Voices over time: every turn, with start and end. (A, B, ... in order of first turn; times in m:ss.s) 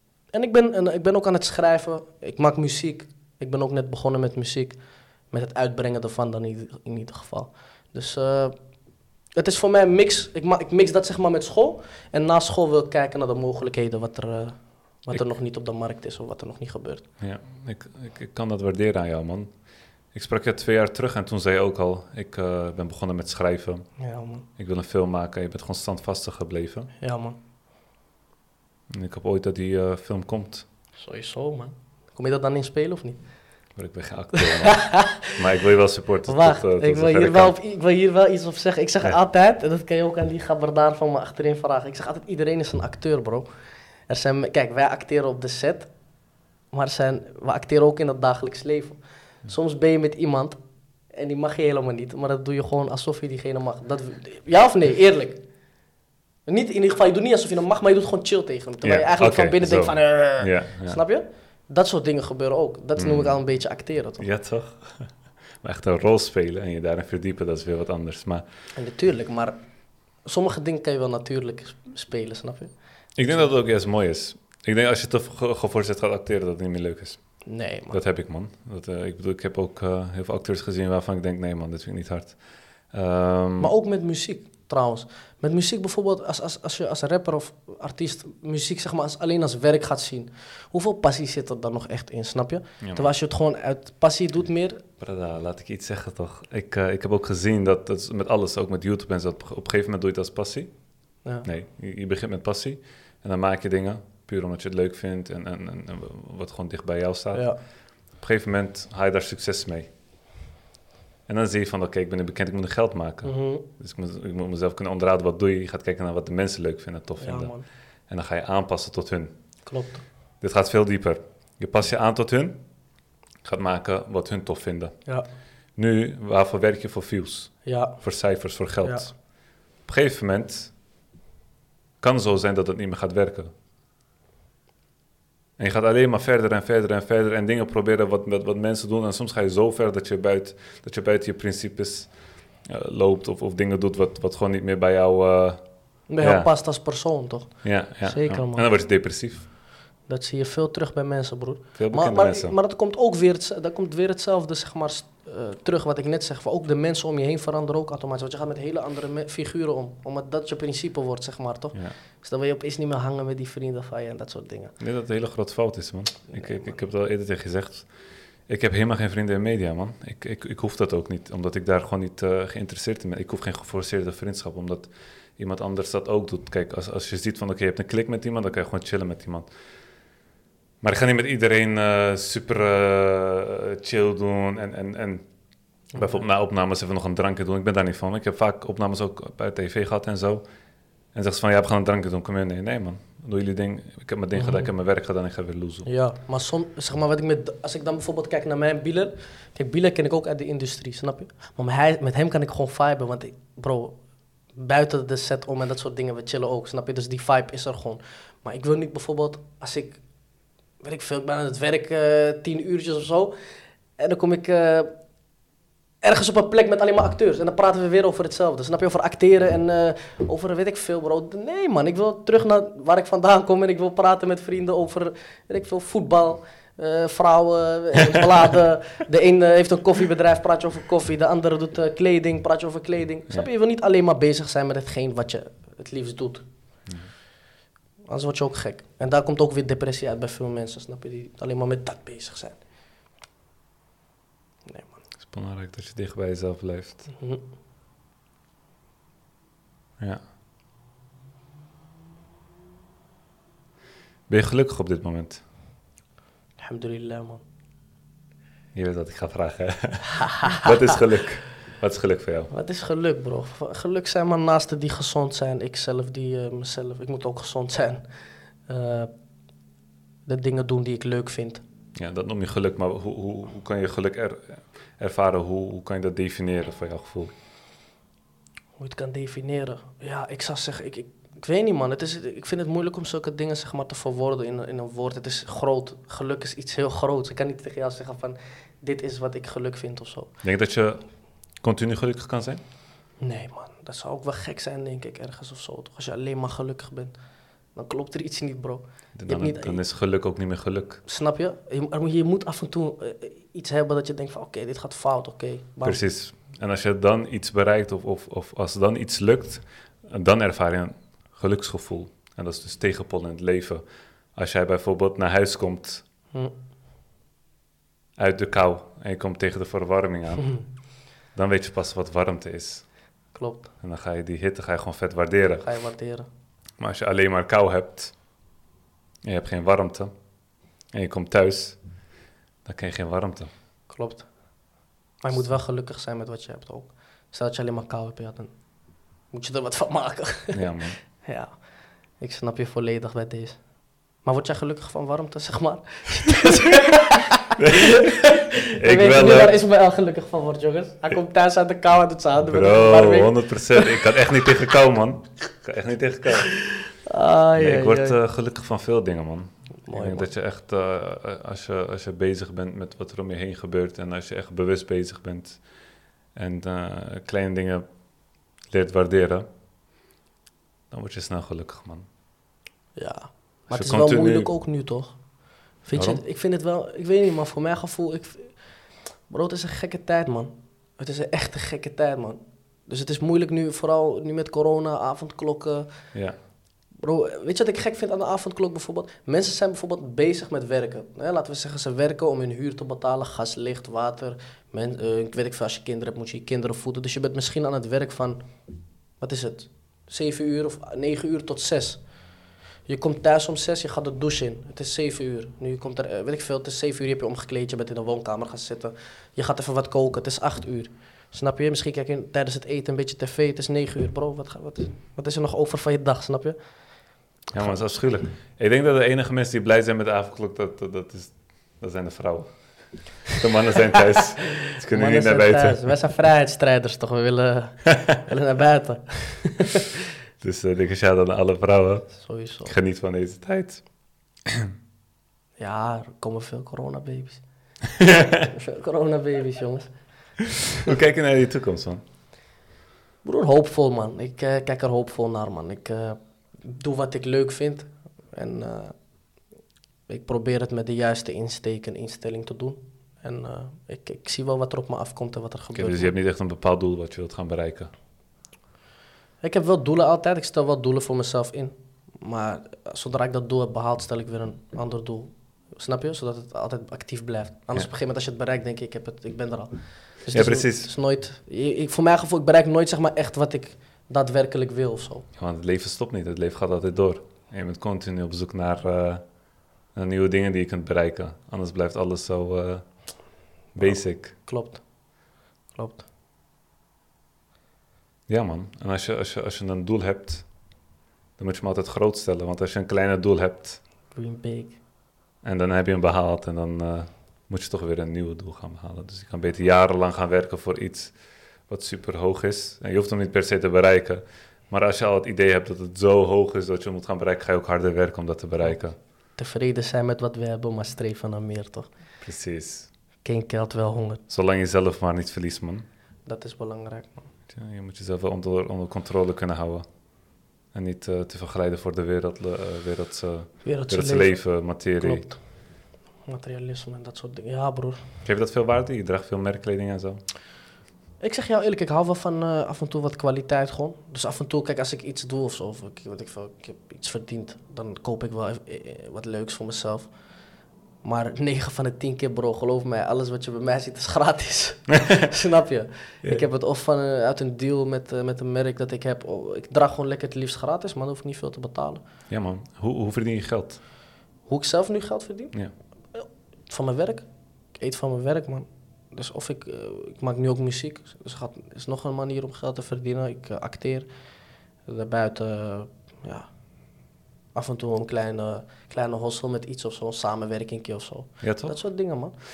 0:00.3-0:08.6 A
0:09.3-0:17.0 A
0:17.2-0:19.6 B
0:20.1-0:23.9 B
0:24.0-0:24.4 A
0:24.6-0:26.9 B
0:27.0-0:27.4 A
0:28.9-0:30.6 B
0:31.0-0:33.2 A
0:33.8-0:37.5 B
0:34.4-0:35.3 A
0:36.3-0:43.5 A
0:44.1-0:45.9 A
0:46.7-0:50.6 A
0:51.1-0:55.4 A
0:56.4-1:04.2 A
0:58.8-1:01.0 B
1:03.0-1:03.4 B
1:04.2-1:08.4 B
1:08.7-1:09.6 A
1:10.2-1:12.7 A
1:13.2-1:17.2 B
1:13.2-1:13.5 A
1:17.4-1:18.0 A
1:17.9-1:23.7 B
1:23.6-1:34.8 A
1:32.8-1:33.1 B
1:35.0-1:49.9 B
1:47.3-1:47.6 A
1:51.3-1:57.6 B
1:53.2-1:53.6 A
1:57.2-1:57.6 A
1:58.1-1:59.4 B
1:59.6-2:00.0 A
2:00.4-2:02.6 B
2:03.4-2:05.0 B
2:05.8-2:10.7 B
2:07.6-2:08.0 A
2:08.8-2:09.1 A
2:12.0-2:13.5 B
2:15.6-2:26.5 B
2:26.1-2:28.6 A
2:27.6-2:29.5 B
2:30.1-2:44.8 A
2:31.8-2:32.6 B
2:44.8-2:59.5 B
2:46.3-2:46.8 A
3:00.8-3:05.3 B
3:05.9-3:10.4 B
3:05.9-3:06.2 A
3:11.1-3:15.9 B
3:14.3-3:14.7 A
3:15.8-3:24.0 A
3:24.5-3:30.0 A
3:30.8-3:33.3 A
3:34.0-3:35.0 A
3:36.0-3:56.5 A
3:56.9-3:57.1 B
3:58.1-4:02.6 A
4:04.6-4:05.0 A
4:05.2-4:07.1 B
4:07.1-4:07.4 A
4:14.3-4:15.4 B
4:16.6-4:17.4 A
4:18.7-4:22.5 B
4:20.2-4:20.6 A
4:22.5-4:28.0 A
4:28.7-4:29.1 A
4:30.2-4:31.6 A
4:31.9-4:37.3 B
4:38.8-4:50.3 A
4:50.4-4:51.1 B
4:51.6-4:52.6 B
4:53.2-4:57.1 A
4:57.7-4:59.8 A
4:59.1-5:01.0 B
5:01.1-5:06.0 A
5:05.8-5:16.0 B
5:18.2-5:20.6 B
5:21.3-5:22.8 B
5:23.3-5:23.7 A
5:23.8-5:25.7 B
5:25.6-5:26.2 A
5:26.8-5:28.2 B
5:29.2-5:30.1 B
5:30.9-5:32.0 B
5:32.6-5:33.5 B
5:33.9-5:34.3 A
5:35.2-5:38.5 A
5:39.3-5:40.6 A
5:40.5-5:41.0 B
5:41.2-5:41.6 A
5:42.2-5:43.6 A
5:44.2-5:54.0 A
5:47.6-5:49.5 B
5:52.5-5:56.6 B
5:56.4-5:58.2 A
5:57.6-6:05.7 B
5:59.8-6:00.3 A
6:06.3-6:07.8 B
6:08.7-6:09.5 B
6:10.9-6:12.0 B
6:13.0-6:15.2 A
6:13.7-6:14.5 B
6:15.8-6:26.1 A
6:15.9-6:16.2 B
6:26.9-6:38.4 A
6:39.2-6:42.1 A
6:42.8-6:56.6 A
6:57.5-7:05.9 B
6:57.5-6:57.9 A
7:04.8-7:09.9 A
7:10.4-7:13.8 B
7:12.2-7:12.7 A
7:15.6-7:17.4 A
7:18.0-7:18.5 B
7:18.4-7:20.0 A
7:20.8-7:22.0 B
7:23.2-7:29.0 A
7:30.1-7:36.1 A
7:35.7-7:37.9 B
7:39.4-7:55.3 A
7:50.3-7:50.9 B
7:55.4-7:59.2 B
7:59.9-8:04.3 B
8:03.7-8:04.8 A
8:05.7-8:06.0 A
8:08.3-8:10.5 B
8:11.4-8:13.8 B
8:14.1-8:14.8 A
8:15.4-8:29.0 B
8:29.4-8:31.9 A
8:32.2-8:32.9 B
8:33.2-8:34.2 A
8:34.3-8:35.8 B
8:36.2-8:37.3 A
8:37.5-8:40.0 B
8:40.7-8:45.3 B
8:43.6-8:45.4 A
8:46.2-8:48.0 A
8:48.2-8:50.2 B
8:51.2-9:00.1 A
9:01.0-9:12.0 A
9:12.3-9:13.8 B
9:14.5-9:15.5 A
9:16.1-9:24.1 A
9:24.8-9:26.6 A
9:27.5-9:32.3 A
9:31.4-9:31.8 B